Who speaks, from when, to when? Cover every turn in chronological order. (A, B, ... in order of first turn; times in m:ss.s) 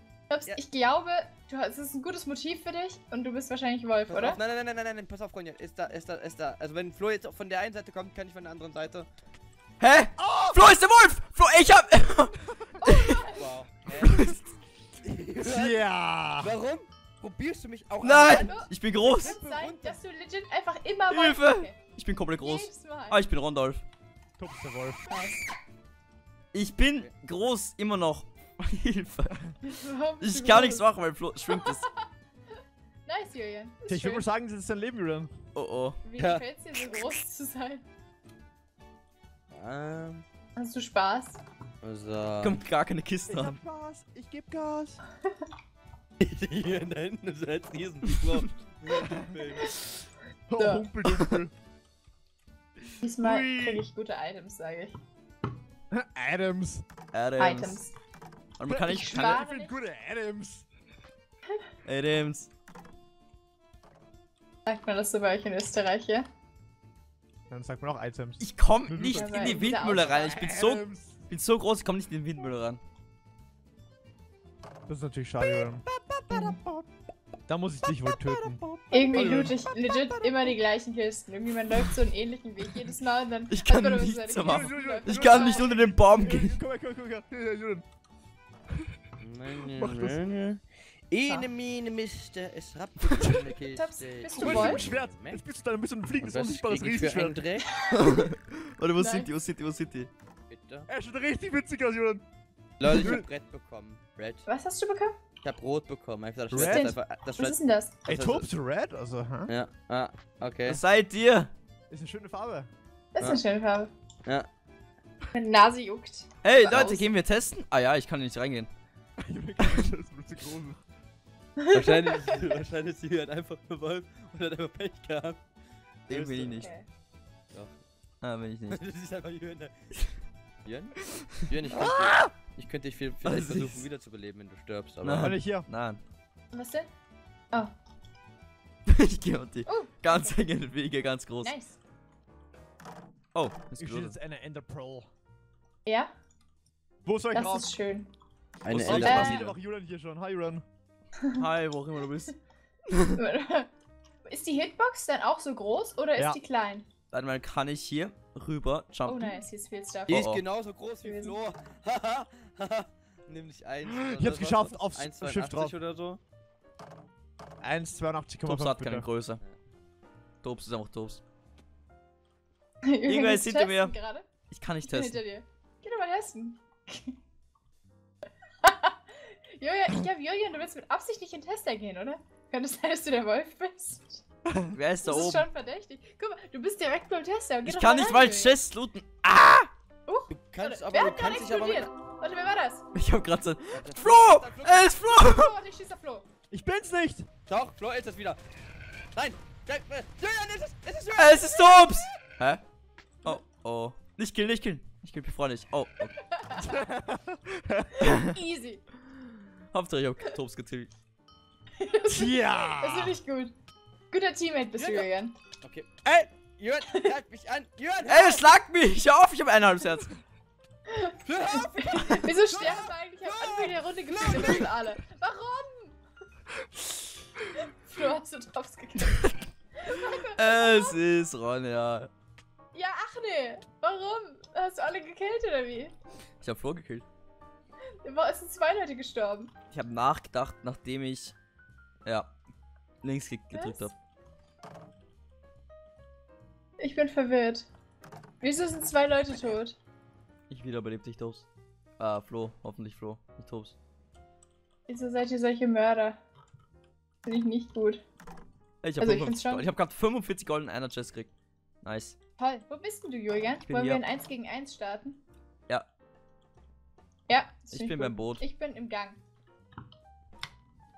0:00.3-0:04.4 A
0:04.1-0:09.1 B
0:09.8-0:13.2 C
0:10.2-0:10.6 D
0:12.8-0:13.5 A
0:13.4-0:14.4 B
0:13.9-0:14.5 C
0:15.0-0:15.8 B
0:15.4-0:16.5 D
0:16.4-0:20.0 B
0:18.0-0:19.4 C
0:18.2-0:21.8 A
0:21.1-0:23.8 C
0:22.4-0:23.2 A
0:24.4-0:25.1 D
0:25.1-0:25.4 A
0:26.5-0:29.6 C
0:29.6-0:30.9 A
0:30.2-0:31.8 C
0:31.5-0:32.1 A
0:33.0-0:34.2 A
0:33.9-0:35.4 D
0:35.5-0:36.0 C
0:36.0-0:37.8 A
0:36.2-0:36.4 B
0:39.5-0:40.2 B
0:40.6-0:41.4 A
0:41.8-0:42.6 B
0:42.4-0:43.6 C
0:43.3-0:45.0 D
0:46.2-0:49.8 B
0:50.5-0:51.5 D
0:50.6-0:50.9 A
0:53.0-0:55.0 A
0:53.2-0:53.8 C
0:55.9-0:56.8 D
0:57.1-0:57.8 C
0:57.4-0:57.9 A
0:58.6-0:59.4 C
0:58.7-1:00.6 D
0:58.9-0:59.8 A
1:01.8-1:02.5 C
1:04.6-1:06.3 A
1:07.5-1:11.2 D
1:08.4-1:12.8 C
1:09.1-1:10.5 A
1:14.9-1:16.8 D
1:15.9-1:16.2 B
1:17.5-1:20.6 D
1:18.1-1:18.8 B
1:18.9-1:25.9 A
1:23.5-1:26.6 C
1:24.4-1:27.8 D
1:29.2-1:35.4 B
1:29.8-1:30.2 D
1:33.7-1:34.8 A
1:34.4-1:37.4 D
1:36.2-1:37.6 B
1:37.6-1:38.3 A
1:37.9-1:40.1 C
1:39.0-1:39.3 A
1:40.5-1:40.9 B
1:40.9-1:42.2 D
1:42.8-1:44.4 B
1:42.9-1:43.2 D
1:44.4-1:45.1 A
1:45.4-1:48.5 B
1:46.5-1:46.9 D
1:46.5-1:47.9 A
1:48.0-1:49.5 D
1:49.5-1:50.8 B
1:50.6-1:51.5 C
1:51.9-1:52.7 D
1:53.1-1:53.9 A
1:55.3-1:57.1 A
1:56.4-1:58.7 C
1:59.2-2:00.8 D
1:59.6-1:59.8 C
2:01.6-2:02.0 A
2:01.7-2:05.4 B
2:06.1-2:06.7 B
2:06.1-2:06.7 C
2:06.6-2:06.9 A
2:08.2-2:08.8 C
2:08.7-2:09.7 B
2:10.6-2:10.9 B
2:11.0-2:12.3 C
2:11.5-2:15.4 B
2:13.2-2:13.8 C
2:15.0-2:16.0 C
2:15.2-2:15.7 D
2:16.5-2:16.9 A
2:18.9-2:21.5 C
2:19.6-2:20.4 A
2:21.4-2:21.8 A
2:23.3-2:24.2 C
2:23.8-2:25.1 D
2:25.8-2:26.1 A
2:27.0-2:27.7 D
2:27.3-2:28.1 A
2:28.6-2:29.5 B
2:28.7-2:29.4 C
2:28.8-2:30.6 D
2:29.0-2:29.3 A
2:31.4-2:32.3 C
2:32.9-2:33.2 C
2:33.1-2:33.7 A
2:34.2-2:36.8 A
2:37.1-2:39.4 C
2:39.0-2:40.2 A
2:40.1-2:40.4 C
2:40.1-2:46.2 B
2:41.0-2:41.4 A
2:43.9-2:45.7 D
2:47.6-2:49.0 D
2:48.4-2:49.4 C
2:50.4-2:51.2 C
2:52.8-2:54.3 A
2:53.1-2:54.0 C
2:54.5-2:55.2 C
2:54.8-2:57.2 A
2:58.6-3:04.2 A
3:04.7-3:05.5 C
3:05.0-3:08.6 A
3:07.6-3:09.7 C
3:10.0-3:12.8 A
3:10.3-3:11.9 B
3:12.9-3:15.5 C
3:13.7-3:15.0 B
3:15.0-3:16.2 A
3:16.5-3:17.3 D
3:17.5-3:18.4 B
3:19.1-3:22.1 B
3:21.2-3:22.6 C
3:23.2-3:26.2 C
3:26.3-3:26.8 A
3:26.6-3:28.1 D
3:28.0-3:28.9 A
3:28.0-3:28.3 C
3:29.7-3:30.9 C
3:31.8-3:33.5 A
3:32.1-3:33.2 D
3:34.1-3:35.3 A
3:34.8-3:35.1 B
3:35.6-3:38.4 B
3:38.0-3:40.2 C
3:40.9-3:45.9 A
3:41.2-3:44.7 B
3:41.8-3:42.3 C
3:47.5-3:51.0 A
3:50.2-3:52.1 C
3:52.7-3:55.9 A
3:56.4-3:57.0 C
3:58.0-3:59.5 A
3:59.7-4:01.3 C
4:02.0-4:02.3 C
4:03.0-4:03.9 C
4:03.5-4:03.9 A
4:06.8-4:07.7 A
4:08.4-4:09.8 A
4:10.5-4:11.5 C
4:12.0-4:13.7 C
4:14.9-4:16.2 A
4:17.2-4:18.0 A
4:18.8-4:21.3 C
4:19.0-4:19.7 A
4:21.8-4:22.2 C
4:22.4-4:25.2 A
4:23.7-4:24.0 C
4:27.3-4:29.2 A
4:27.7-4:28.4 C